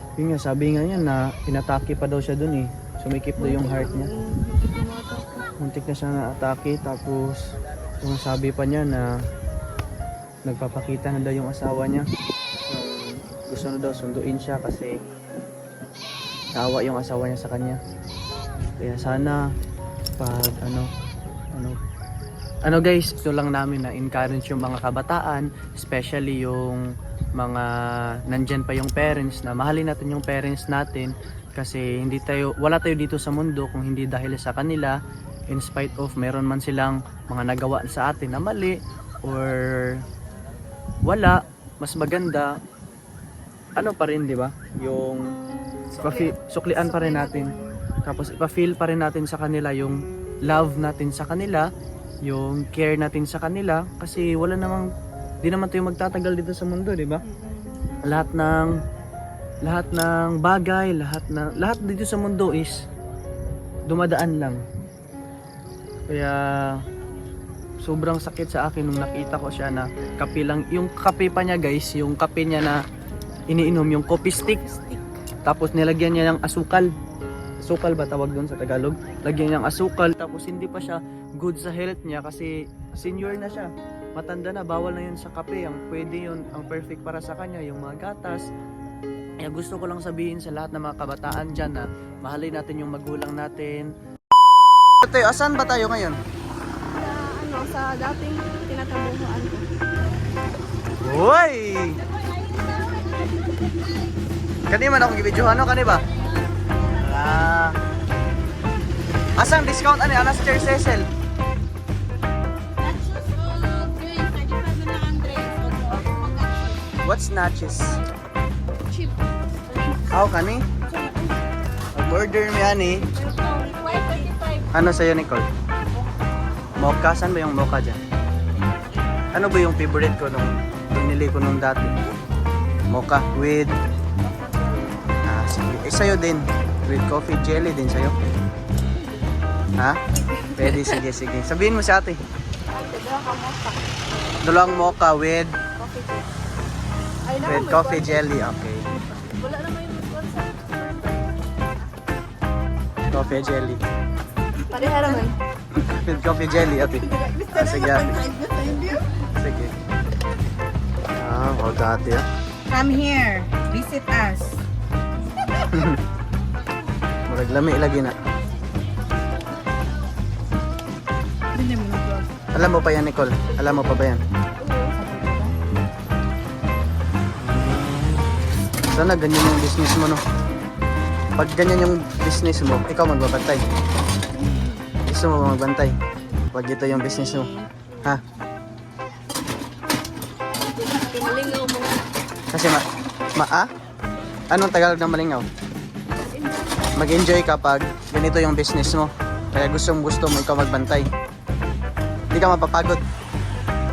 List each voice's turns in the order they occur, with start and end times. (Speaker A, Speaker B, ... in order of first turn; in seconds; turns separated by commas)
Speaker A: 0.2-4.1, Speaker B: 3.4-5.5, Speaker A: 5.6-9.1, Speaker A: 10.5-12.1, Speaker A: 12.7-15.0, Speaker A: 16.5-17.8, Speaker A: 18.8-19.4, Speaker A: 20.2-20.9, Speaker A: 21.5-21.8, Speaker A: 22.6-35.0, Speaker A: 35.5-40.0, Speaker A: 41.0-42.6, Speaker A: 43.8-45.3, Speaker B: 45.9-47.8, Speaker A: 46.0-47.5, Speaker A: 48.0-51.7, Speaker A: 52.3-54.9, Speaker A: 55.4-57.2, Speaker B: 57.3-57.8, Speaker A: 58.0-58.8, Speaker A: 59.7-62.8, Speaker A: 63.9-64.6, Speaker A: 66.1-66.8, Speaker A: 67.8-72.8, Speaker A: 73.5-74.6, Speaker B: 74.5-75.0, Speaker A: 75.5-76.9, Speaker A: 77.6-88.5, Speaker A: 89.4-93.9, Speaker A: 95.0-96.2, Speaker B: 96.9-99.6, Speaker A: 101.0-102.0, Speaker C: 102.5-104.1, Speaker A: 104.7-106.0, Speaker A: 106.9-107.8, Speaker A: 109.4-111.1, Speaker C: 112.8-116.9, Speaker A: 117.0-118.0, Speaker C: 119.7-120.0, Speaker A: 120.1-120.7, Speaker C: 120.9-121.3, Speaker A: 121.9-123.0, Speaker B: 123.0-124.7, Speaker C: 123.4-124.4, Speaker A: 124.7-125.5, Speaker A: 126.8-128.0, Speaker A: 129.3-131.9, Speaker A: 132.9-133.7, Speaker B: 134.2-135.1, Speaker A: 135.3-138.2, Speaker B: 140.2-141.0, Speaker A: 140.6-142.2, Speaker B: 142.7-143.8, Speaker A: 144.4-145.6, Speaker B: 145.8-146.3, Speaker B: 147.3-148.3, Speaker A: 147.4-148.8, Speaker B: 148.9-151.4, Speaker A: 153.1-153.8, Speaker B: 154.7-155.3, Speaker C: 154.7-155.3, Speaker A: 155.7-158.1, Speaker C: 156.6-159.0, Speaker A: 159.3-159.8, Speaker A: 161.2-162.2, Speaker C: 162.7-164.6, Speaker B: 165.2-165.5, Speaker A: 165.7-166.0, Speaker A: 167.3-168.2, Speaker C: 171.5-172.3, Speaker A: 172.6-174.2, Speaker B: 174.6-174.9, Speaker C: 174.9-175.5, Speaker A: 178.9-180.2, Speaker A: 181.4-183.6, Speaker B: 184.4-184.8, Speaker A: 185.1-185.9, Speaker A: 186.5-187.5, Speaker B: 190.8-192.0, Speaker C: 190.9-191.5, Speaker A: 192.5-192.8, Speaker A: 193.3-193.7, Speaker A: 194.5-195.5, Speaker B: 196.3-196.6, Speaker A: 197.0-201.1, Speaker A: 202.3-203.0